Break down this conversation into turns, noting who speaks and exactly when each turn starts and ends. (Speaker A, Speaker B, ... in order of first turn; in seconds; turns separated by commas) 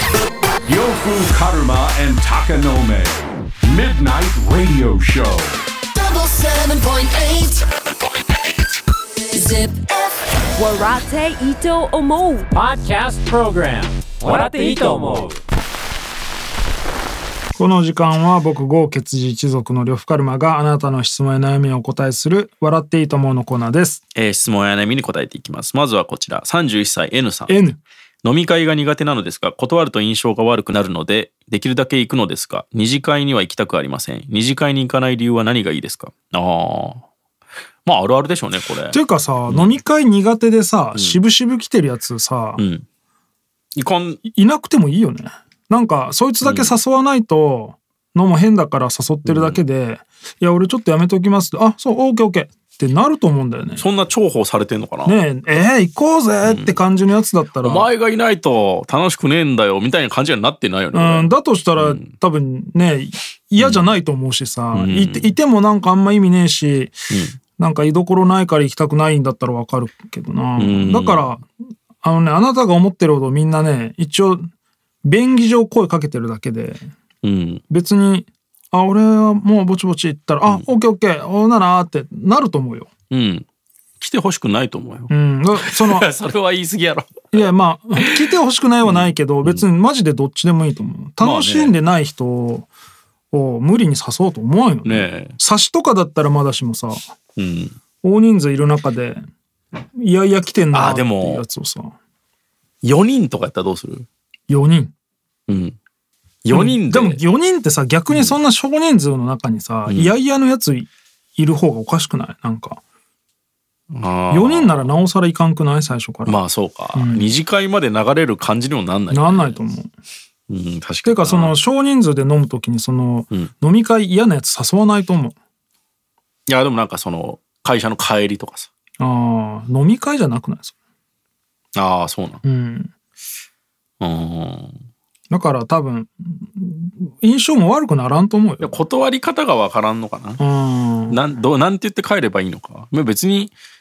Speaker A: 0.7-5.6, Speaker B: 6.0-7.6, Speaker C: 6.1-6.4, Speaker B: 9.4-9.7, Speaker C: 10.6-12.4, Speaker D: 12.5-15.4, Speaker E: 17.6-24.0, Speaker F: 24.1-27.5, Speaker E: 27.5-27.8, Speaker F: 28.2-37.0, Speaker F: 37.9-39.8, Speaker E: 38.9-42.6, Speaker F: 41.0-41.2, Speaker F: 42.6-42.9, Speaker F: 43.8-44.2, Speaker E: 44.2-53.9, Speaker F: 46.4-46.8, Speaker F: 49.2-49.6, Speaker F: 53.8-55.2, Speaker E: 55.0-57.9, Speaker F: 56.4-56.9, Speaker F: 57.6-62.1, Speaker E: 60.9-67.0, Speaker F: 63.6-63.9, Speaker F: 64.7-65.3, Speaker F: 67.1-67.4, Speaker E: 67.6-71.5, Speaker F: 70.6-71.4, Speaker E: 72.0-74.5, Speaker E: 75.0-76.9, Speaker F: 77.2-77.6, Speaker E: 77.7-82.9, Speaker F: 83.1-83.5, Speaker F: 84.0-88.3, Speaker E: 85.1-86.1, Speaker E: 87.3-92.7, Speaker F: 88.8-89.6, Speaker F: 91.2-91.8, Speaker E: 93.3-97.0, Speaker F: 94.8-95.4, Speaker F: 97.4-97.8, Speaker E: 98.0-99.2, Speaker E: 99.9-102.0, Speaker F: 100.7-101.5, Speaker F: 102.8-104.1, Speaker E: 104.5-104.9, Speaker F: 105.5-105.8, Speaker F: 106.4-107.2, Speaker E: 106.5-112.8, Speaker F: 108.1-108.4, Speaker F: 109.9-110.1, Speaker F: 113.9-114.9, Speaker E: 114.3-116.4, Speaker F: 116.3-119.6, Speaker E: 116.9-117.3, Speaker E: 119.1-119.9, Speaker F: 120.5-121.6, Speaker E: 121.0-125.3, Speaker F: 126.5-128.7, Speaker E: 129.0-130.7, Speaker F: 131.8-132.4, Speaker E: 132.4-132.9, Speaker F: 134.0-134.8, Speaker E: 135.3-138.8, Speaker F: 138.6-140.4, Speaker E: 140.4-141.2, Speaker F: 141.1-143.5